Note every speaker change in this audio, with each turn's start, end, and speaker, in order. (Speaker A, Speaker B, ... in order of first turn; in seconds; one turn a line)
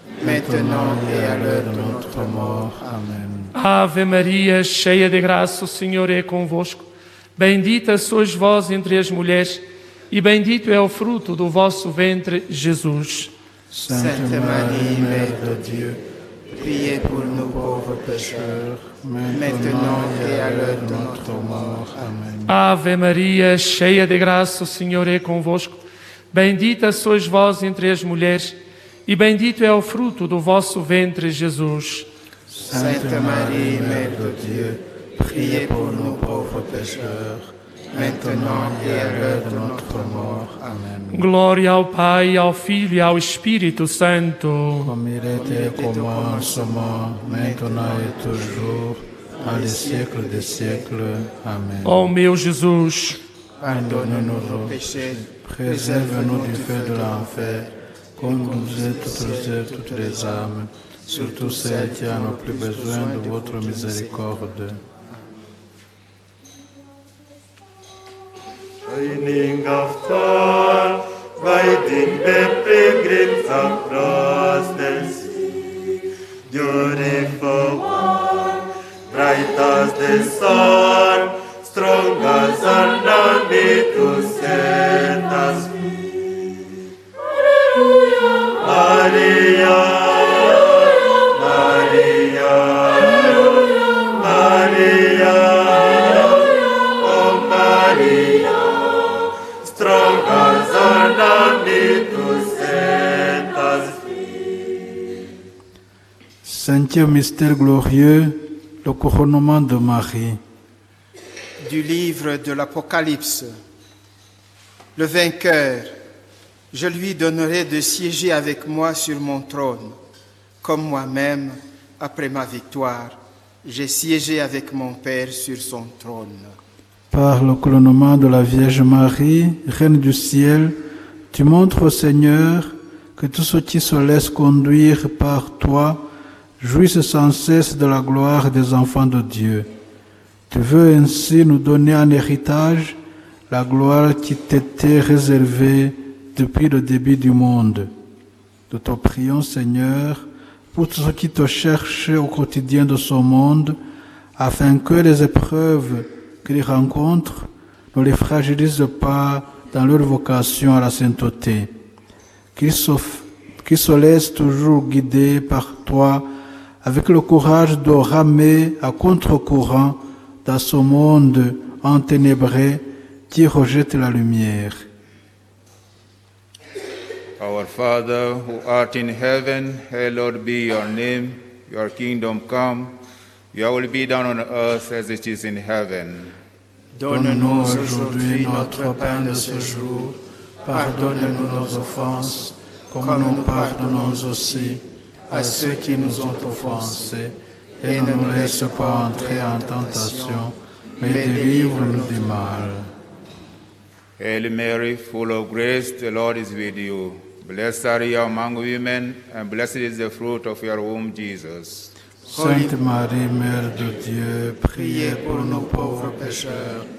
Speaker A: 0.2-3.0
Speaker B: 0.2-3.5
Speaker C: 3.5-13.3
Speaker B: 13.7-22.6
Speaker A: 13.9-15.6
Speaker A: 16.6-18.6
Speaker A: 19.3-22.0
Speaker C: 22.5-25.8
Speaker C: 26.3-32.1
Speaker B: 32.5-41.3
Speaker A: 32.7-37.1
Speaker A: 37.9-40.8
Speaker C: 41.1-44.9
Speaker B: 44.8-52.1
Speaker A: 45.3-48.9
Speaker A: 49.4-50.9
Speaker C: 51.8-53.2
Speaker A: 53.6-57.7
Speaker B: 53.6-64.8
Speaker A: 58.2-60.5
Speaker A: 61.1-64.5
Speaker D: 68.9-75.8
Speaker D: 76.5-86.0
Speaker D: 88.5-99.0
Speaker D: 99.6-104.4
Speaker B: 106.4-110.4
Speaker A: 111.6-113.5
Speaker A: 115.0-116.0
Speaker A: 116.7-120.0
Speaker A: 120.6-126.6
Speaker B: 127.1-130.8
Speaker B: 131.3-136.1
Speaker B: 136.6-139.7
Speaker B: 140.5-147.9
Speaker B: 148.7-153.8
Speaker B: 154.4-161.7
Speaker B: 162.6-166.3
Speaker B: 166.8-174.9
Speaker E: 177.4-183.0
Speaker E: 183.5-186.4
Speaker A: 186.9-190.1
Speaker B: 187.1-202.9
Speaker A: 190.7-192.3
Speaker A: 193.0-197.1
Speaker A: 197.8-202.6
Speaker E: 204.2-211.9
Speaker B: 212.3-216.9
Speaker A: 212.3-212.8
Speaker A: 214.7-216.7